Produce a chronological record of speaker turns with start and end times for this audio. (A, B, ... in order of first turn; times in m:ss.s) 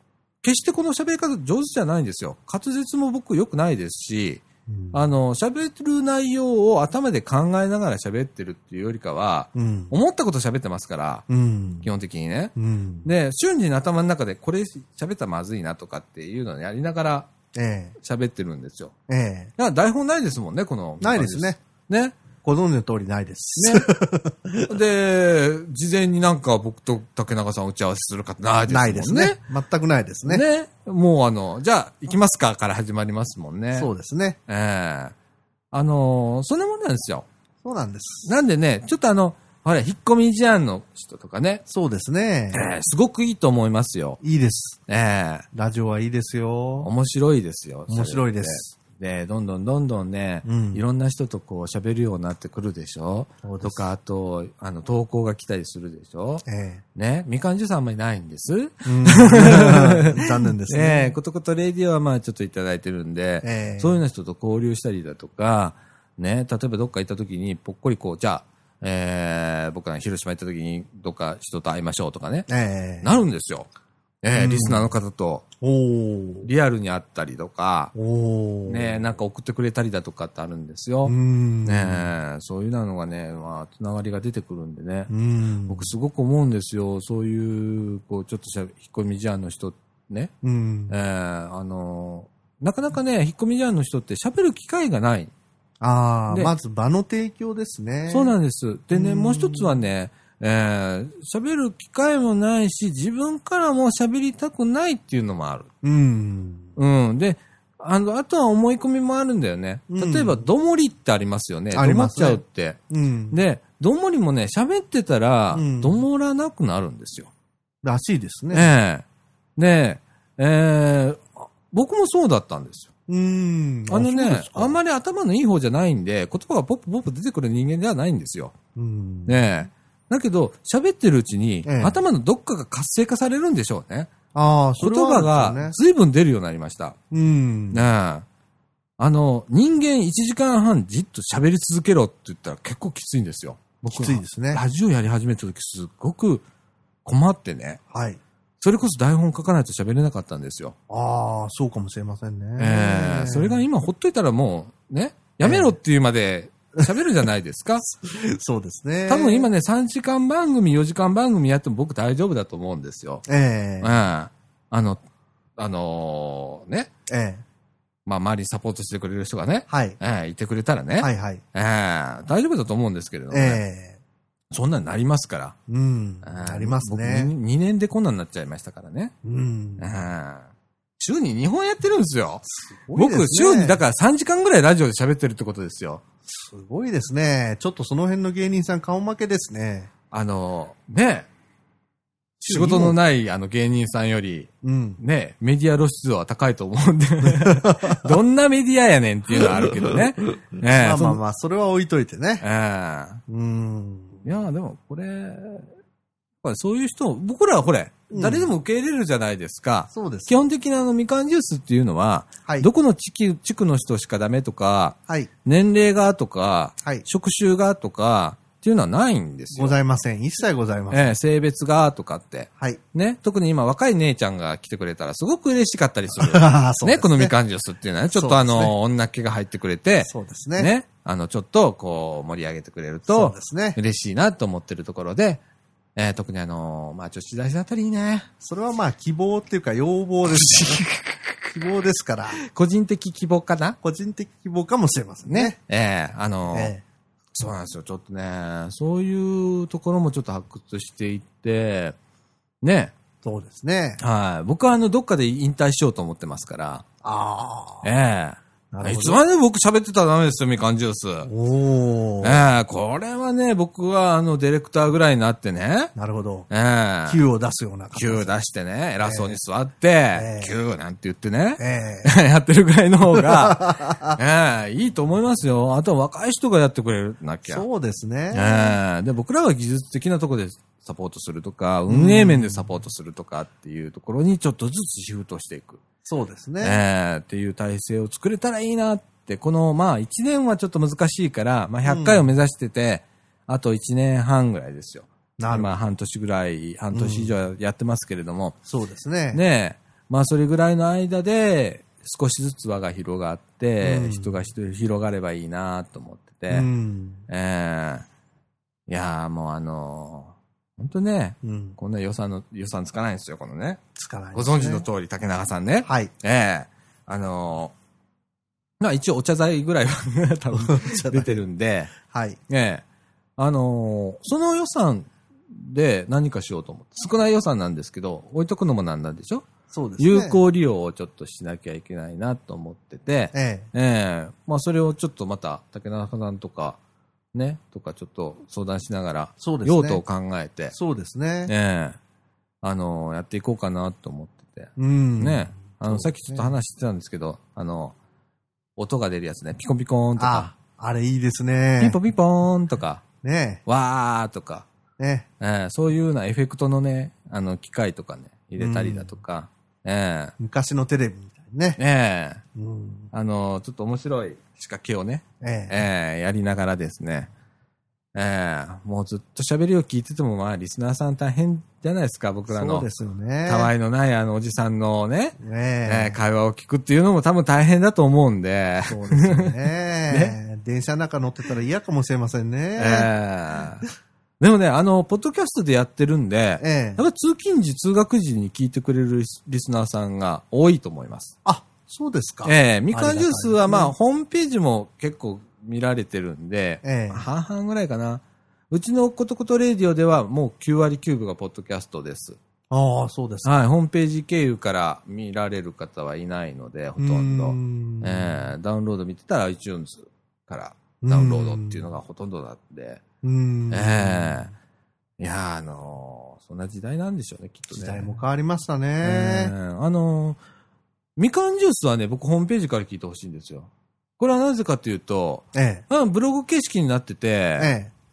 0:00.4-0:11.2 A
0:04.7-0:05.0 B
0:09.5-0:09.9 B
0:11.3-0:11.9 B
0:11.8-0:17.3 A
0:12.6-0:13.1 B
0:17.5-0:18.0 B
0:18.0-0:18.9 A
0:19.1-0:19.5 B
0:19.6-0:22.2 A
0:21.0-0:21.6 B
0:22.4-0:24.7 B
0:23.6-0:23.9 A
0:24.6-0:29.4 A
0:28.7-0:30.4 B
0:30.2-0:33.9 A
0:33.7-0:34.4 B
0:34.5-0:35.1 A
0:35.7-0:37.3 A
0:37.6-0:38.3 B
0:38.2-0:41.6 A
0:41.7-0:42.6 B
0:42.5-0:44.2 A
0:44.2-0:44.8 B
0:44.9-0:45.4 A
0:45.5-0:46.9 B
0:46.8-0:56.4 A
0:47.9-0:48.7 B
0:50.4-0:50.8 B
0:53.4-0:53.9 B
0:56.4-0:56.8 B
0:56.9-1:12.5 A
0:58.8-1:01.1 B
1:03.4-1:04.0 B
1:12.5-1:13.1 B
1:13.0-1:13.7 A
1:14.2-1:15.4 A
1:14.3-1:14.9 B
1:15.6-1:16.5 B
1:16.4-1:17.9 A
1:17.9-1:19.0 B
1:18.6-1:25.1 A
1:21.0-1:22.1 B
1:25.1-1:25.9 B
1:25.7-1:30.3 A
1:30.4-1:30.9 B
1:30.9-1:35.3 A
1:35.8-1:38.3 B
1:38.1-1:45.7 A
1:38.9-1:39.8 B
1:45.8-1:46.7 B
1:46.8-1:57.3 A
1:49.9-1:50.4 B
1:51.7-1:53.4 B
1:55.5-1:56.0 B
1:57.8-1:58.7 B
1:58.5-1:59.0 A
1:59.6-2:02.9 A
2:03.1-2:04.8 B
2:03.9-2:08.5 A
2:08.7-2:09.5 B
2:09.3-2:14.1 A
2:11.6-2:12.0 B
2:14.3-2:15.8 B
2:14.8-2:17.0 A
2:17.1-2:17.8 B
2:17.7-2:18.2 A
2:19.0-2:26.4 A
2:23.9-2:24.6 B
2:27.0-2:27.8 A
2:27.9-2:28.2 B
2:28.6-2:30.8 A
2:30.9-2:33.6 B
2:32.6-2:37.9 A
2:35.4-2:35.7 B
2:38.0-2:39.5 B
2:39.1-2:43.2 A
2:43.2-2:43.9 B
2:43.8-2:45.0 A
2:45.6-2:46.9 A
2:47.1-2:47.4 B
2:48.0-2:53.6 A
2:49.7-2:50.0 B
2:51.0-2:51.4 B
2:53.3-2:54.0 B
2:54.5-2:55.6 A
2:55.7-2:57.3 B
2:56.2-2:59.1 A
2:59.2-2:59.9 B
2:59.8-3:06.0 A
3:02.5-3:03.8 B
3:06.2-3:09.9 B
3:10.1-3:11.3 A
3:12.4-3:13.0 B
3:12.4-3:21.2 A
3:14.6-3:15.0 B
3:17.4-3:18.0 B
3:20.6-3:22.4 B
3:22.4-3:23.2 A
3:23.3-3:24.2 B
3:24.2-3:25.7 A
3:26.4-3:39.8 A
3:28.1-3:28.5 B
3:29.9-3:30.3 B
3:39.5-3:41.1 B
3:40.9-3:55.4 A
3:46.2-3:47.3 B
3:48.1-3:48.7 B
3:50.0-3:50.7 B
3:53.1-3:53.8 B
3:56.0-3:58.3 A
3:58.4-4:00.8 B
4:00.3-4:01.5 A
4:01.5-4:02.4 B
4:02.4-4:03.8 A
4:03.8-4:05.6 B
4:05.3-4:06.7 A
4:06.5-4:06.8 B
4:07.3-4:12.0 A
4:12.6-4:12.9 A
4:13.2-4:14.0 B
4:14.0-4:16.8 A
4:17.0-4:17.9 B
4:17.8-4:21.3 A
4:18.7-4:19.2 B
4:21.2-4:22.4 B
4:22.2-4:25.9 A
4:25.9-4:26.5 B
4:26.5-4:27.2 A
4:27.0-4:28.3 B
4:27.9-4:37.6 A
4:29.0-4:29.4 B
4:30.1-4:30.5 B
4:31.6-4:32.1 B
4:33.1-4:34.2 B
4:37.5-4:38.8 B
4:38.3-4:45.8 A
4:41.9-4:42.7 B
4:46.0-4:46.8 B
4:46.6-4:58.6 A
4:51.8-4:52.3 B
4:55.4-4:55.8 B
4:56.9-4:57.3 B
4:58.6-4:59.4 B
4:59.3-5:06.7 A
5:03.8-5:04.4 B
5:06.5-5:07.2 B
5:07.3-5:08.0 A
5:08.9-5:17.7 A
5:11.4-5:11.8 B
5:13.9-5:14.8 B
5:15.8-5:16.1 B
5:18.8-5:21.9 A
5:20.5-5:21.3 B
5:21.9-5:22.4 B
5:22.5-5:22.8 A
5:23.4-5:29.5 A
5:29.7-5:30.4 B
5:30.0-5:36.8 A
5:33.3-5:33.7 B
5:37.3-5:40.7 A
5:39.4-5:40.0 B
5:40.7-5:41.5 B
5:41.4-5:42.0 A
5:42.6-5:47.9 A
5:44.8-5:46.5 B
5:48.8-5:50.5 A
5:50.2-5:52.0 B
5:51.8-5:53.0 A
5:53.2-5:53.6 B
5:53.6-5:54.7 A
5:55.0-5:55.3 B
5:55.4-6:00.3 A
5:58.6-5:59.1 B
6:00.4-6:01.8 B
6:01.8-6:02.4 A
6:02.5-6:03.1 B
6:03.1-6:07.3 A
6:05.4-6:05.8 B
6:08.1-6:12.9 A
6:12.5-6:13.7 B
6:13.4-6:20.4 A
6:15.4-6:16.2 B
6:18.8-6:23.1 B
6:22.8-6:23.8 A
6:24.4-6:31.3 A
6:26.6-6:27.0 B
6:31.4-6:33.9 B
6:32.4-6:42.4 A
6:36.8-6:37.2 B
6:42.7-6:43.5 B
6:43.4-6:53.0 A
6:47.0-6:48.5 B
6:51.0-6:51.9 B
6:53.2-6:54.5 B
6:53.7-6:54.5 A
6:55.2-6:58.1 A
6:57.7-6:59.5 B
6:59.0-7:00.4 A
7:01.2-7:07.7 A
7:05.5-7:05.8 B
7:07.6-7:07.9 B